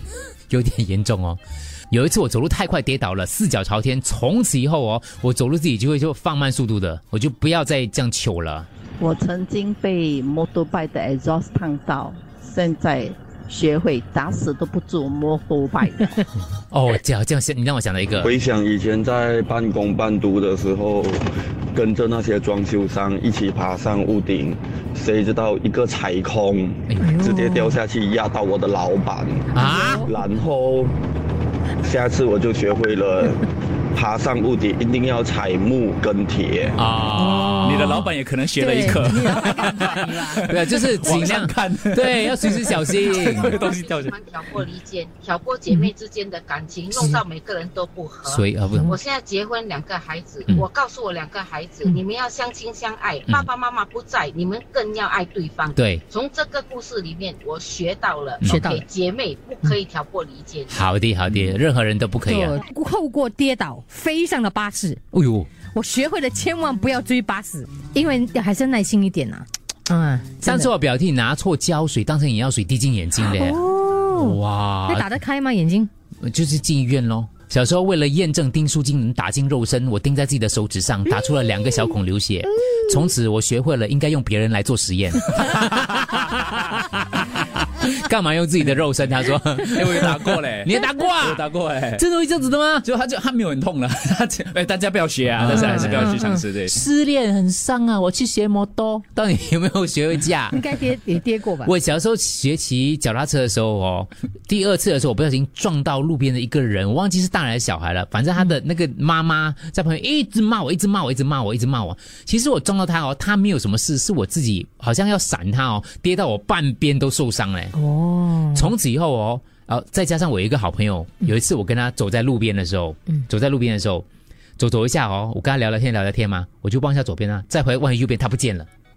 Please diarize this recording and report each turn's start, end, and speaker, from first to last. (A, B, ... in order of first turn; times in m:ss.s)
0:00.5-0:01.4 A
0:01.9-0:08.7 A
0:09.0-0:16.2 B
0:16.7-0:18.4 A
0:18.2-0:21.2 C
0:21.7-0:29.5 C
0:26.9-0:27.2 A
0:27.0-0:27.7 D
0:29.5-0:30.1 A
0:29.6-0:30.1 D
0:30.1-0:30.9 C
0:31.8-0:36.8 C
0:36.8-0:38.0 A
0:37.2-0:40.4 D
0:37.6-0:44.1 E
0:40.4-0:43.5 A
0:43.1-1:00.7 F
0:48.2-0:48.9 A
0:55.7-0:56.0 A
0:58.4-0:58.8 D
1:00.7-1:02.6 A
1:02.2-1:05.0 D
1:05.1-1:05.5 A
1:05.7-1:10.7 D
1:10.4-1:15.1 A
1:13.3-1:15.9 D
1:16.2-1:31.4 A
1:29.6-1:32.0 E
1:32.0-1:32.8 A
1:32.8-1:36.8 E
1:35.4-1:40.6 A
1:40.5-1:41.7 D
1:41.6-1:57.8 A
1:57.8-1:58.7 D
1:58.4-2:04.0 A
2:04.6-2:08.7 A